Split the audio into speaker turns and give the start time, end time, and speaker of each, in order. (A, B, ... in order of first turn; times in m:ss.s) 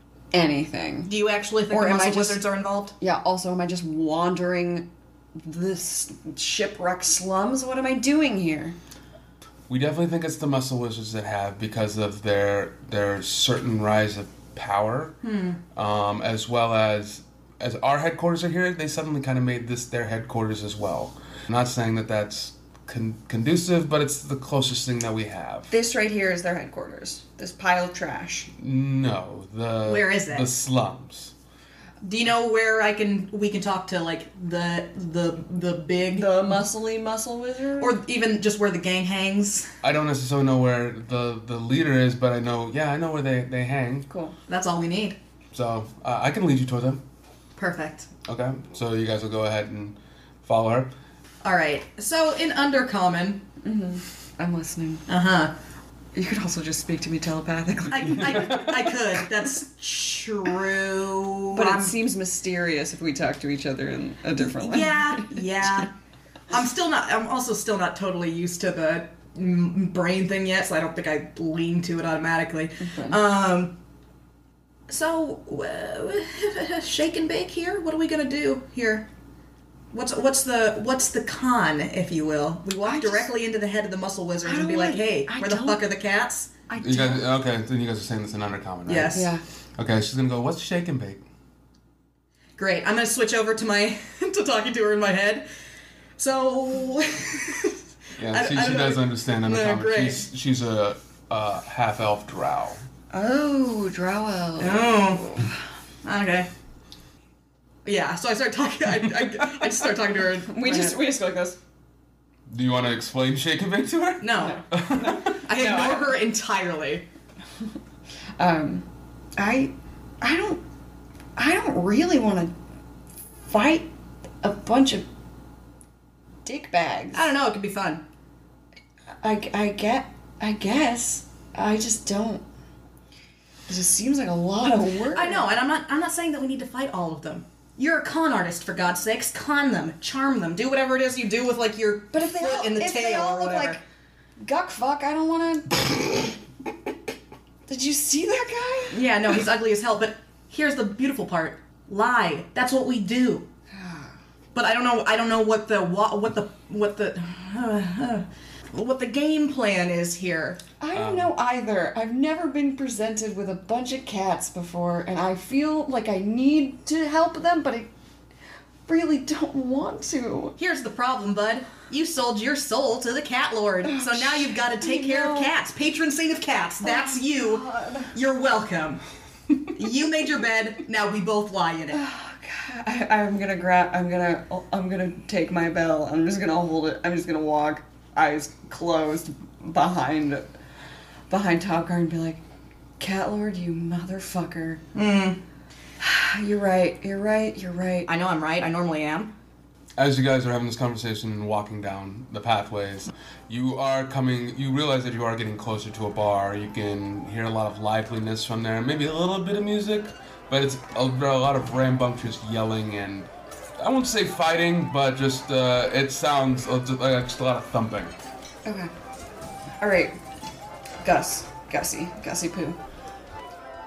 0:00.3-0:02.4 A
0:01.0-0:02.9 B
0:03.0-0:08.8 A
0:09.7-0:15.2 C
0:15.2-0:15.6 B
0:15.7-0:25.7 C
0:25.7-0:28.5 A
0:28.6-0:31.3 C
0:29.8-0:30.5 B
0:32.0-0:36.6 B
0:36.1-0:38.0 A
0:37.8-0:39.7 B
0:39.8-0:44.1 C
0:44.1-0:44.4 A
0:44.5-0:45.2 B
0:45.5-0:47.0 C
0:47.6-0:48.1 B
0:48.2-0:50.9 C
0:51.4-0:53.4 B
0:53.6-0:55.0 A
0:55.1-0:55.5 B
0:56.1-0:58.6 A
0:57.9-1:02.0 B
0:58.3-0:58.7 C
1:01.5-1:05.8 A
1:04.4-1:05.9 B
1:06.5-1:13.7 B
1:12.8-1:13.2 A
1:14.9-1:19.1 B
1:19.9-1:26.5 B
1:22.8-1:23.3 A
1:24.4-1:25.8 A
1:26.7-1:27.2 A
1:26.8-1:29.2 C
1:28.8-1:29.3 B
1:29.1-1:29.4 A
1:29.8-1:31.2 C
1:32.6-1:35.5 B
1:36.2-1:37.8 B
1:38.2-1:42.8 C
1:38.3-1:40.3 B
1:43.1-1:45.5 A
1:44.6-1:45.3 B
1:46.0-1:46.5 B
1:47.8-1:51.1 B
1:50.5-1:51.6 A
1:52.5-1:55.4 C
1:54.2-1:54.6 B
1:54.3-1:56.1 A
1:55.3-1:57.0 B
1:58.4-2:00.6 A
2:01.4-2:02.5 A
2:03.5-2:03.9 A
2:04.4-2:05.0 A
2:06.4-2:07.3 A
2:07.1-2:08.0 B
2:09.2-2:12.4 A
2:13.7-2:15.5 A
2:15.1-2:23.8 B
2:22.1-2:23.8 A
2:24.4-2:26.4 A
2:27.7-2:29.1 A
2:28.9-2:33.5 B
2:33.7-2:34.1 A
2:34.5-2:40.6 B
2:40.8-2:47.9 A
2:40.9-2:41.3 C
2:48.9-2:50.6 A
2:50.6-2:59.0 B
2:53.8-2:55.5 A
2:56.8-2:58.1 A
2:59.7-3:02.0 B
3:01.9-3:10.4 A
3:11.3-3:12.4 A
3:13.0-3:14.8 A
3:14.9-3:15.4 B
3:16.0-3:18.1 A
3:18.1-3:19.3 B
3:20.0-3:38.1 C
3:38.6-3:38.9 A
3:39.8-3:40.2 A
3:41.0-3:42.8 A